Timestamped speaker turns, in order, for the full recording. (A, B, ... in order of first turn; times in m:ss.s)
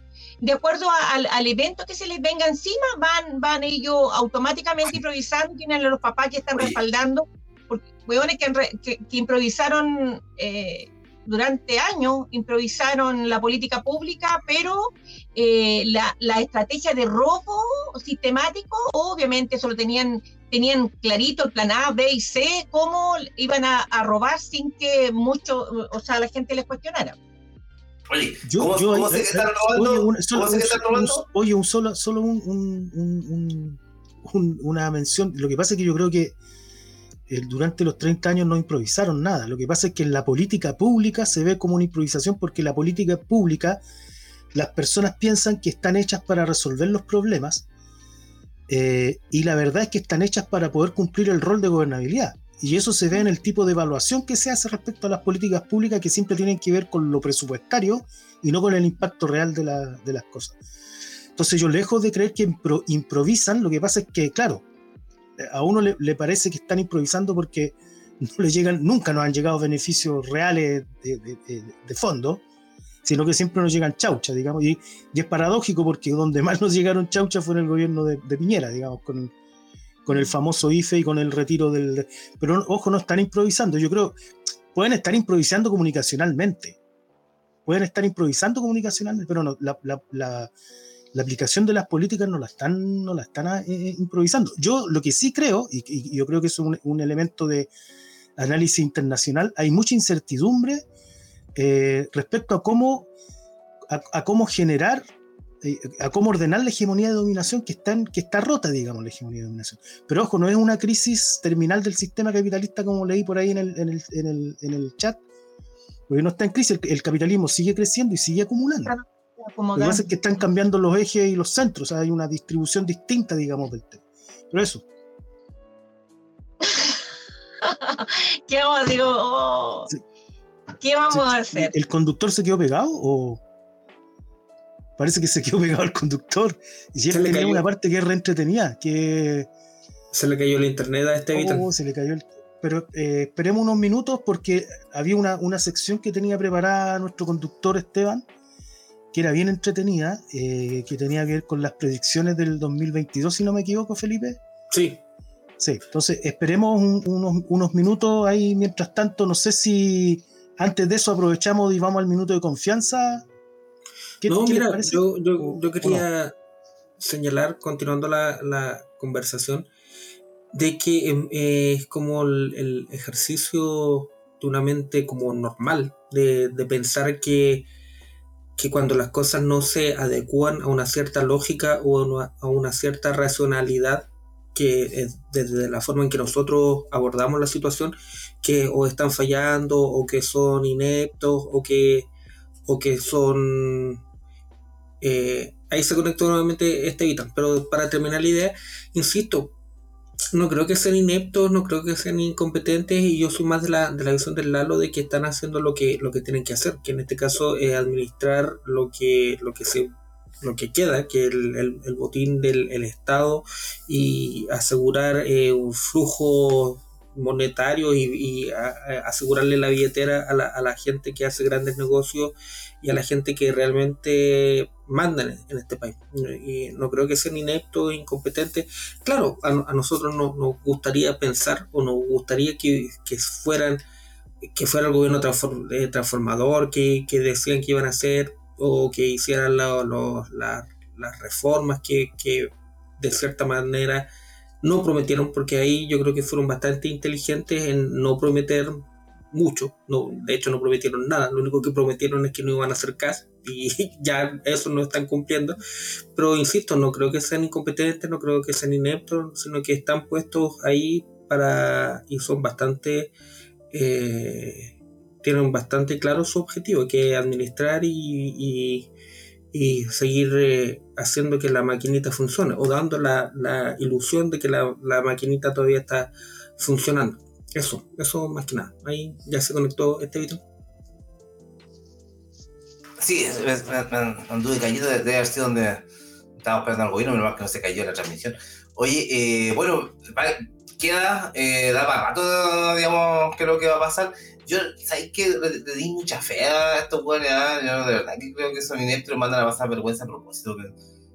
0:00.4-0:27.2 A
0:28.1-0:31.2 B
0:28.4-0:36.4 C
0:37.3-0:43.8 C
0:44.5-0:47.6 C
0:48.7-1:00.6 C
1:01.4-1:04.6 C
1:05.4-1:12.4 C
1:13.0-1:19.3 C
1:20.1-1:24.2 C
1:24.7-1:26.8 C
1:27.7-1:30.5 C
1:31.1-1:37.7 C
1:38.4-1:40.8 C
1:41.6-1:43.1 C
1:43.9-1:45.0 C
1:45.6-1:55.2 C
1:56.1-1:58.9 C
1:58.9-2:00.1 A
1:59.8-2:04.8 C
2:06.6-2:07.0 A
2:07.6-2:09.9 A
2:10.8-2:11.7 A
2:11.1-2:13.4 C
2:15.0-2:19.5 C
2:17.1-2:17.6 D
2:20.1-2:21.7 D
2:21.3-2:28.2 C
2:29.1-2:34.4 C
2:34.7-2:35.0 D
2:35.6-2:43.3 C
2:44.2-2:46.0 C
2:44.3-2:46.3 D
2:47.0-2:49.7 D
2:50.5-2:57.7 D
2:58.6-3:12.1 D
3:12.7-3:14.0 D
3:15.0-3:19.5 D
3:20.3-3:29.9 D
3:30.4-3:53.8 D
3:54.4-4:04.1 D
4:04.6-4:15.6 D
4:16.2-4:23.1 D
4:23.7-4:28.9 D
4:29.5-4:40.4 D
4:43.0-4:45.8 B
4:46.4-5:00.7 B